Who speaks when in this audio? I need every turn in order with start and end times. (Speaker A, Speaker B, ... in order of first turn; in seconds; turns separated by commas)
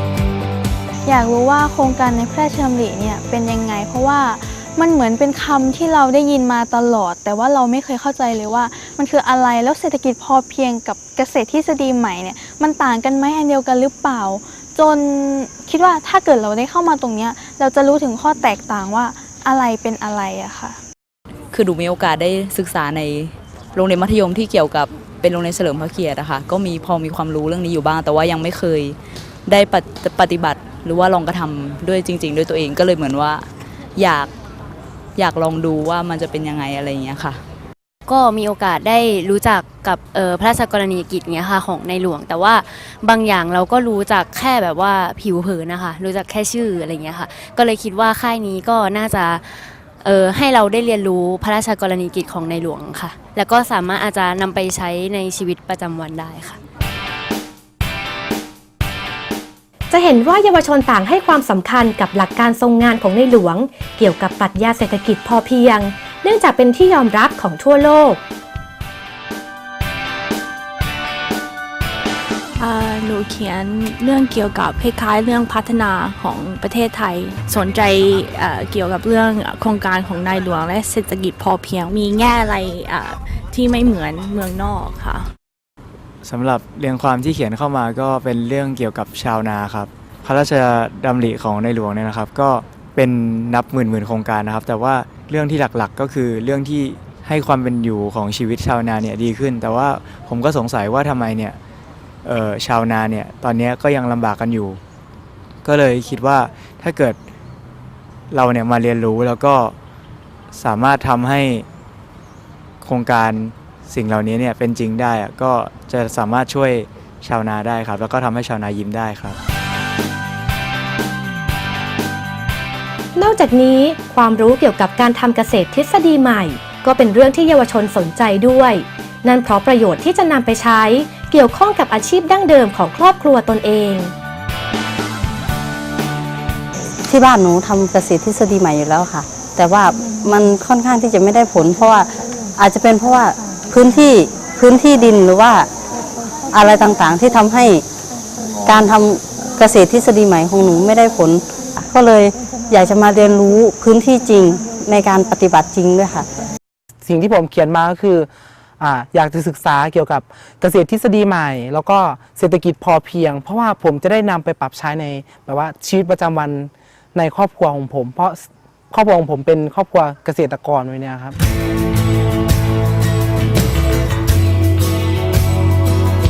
Speaker A: 1.0-20.8, Speaker B: 21.5-34.3, Speaker B: 35.1-37.4, Speaker C: 38.0-56.6, Speaker D: 59.9-68.2, Speaker E: 72.6-85.3, Speaker F: 86.2-101.6, Speaker F: 102.2-104.8, Speaker F: 105.6-107.2, Speaker F: 108.3-109.7, Speaker F: 110.5-111.7, Speaker F: 112.8-119.4, Speaker D: 123.2-134.1, Speaker G: 137.1-145.7, Speaker G: 146.5-147.8, Speaker G: 148.7-156.3, Speaker H: 157.0-171.3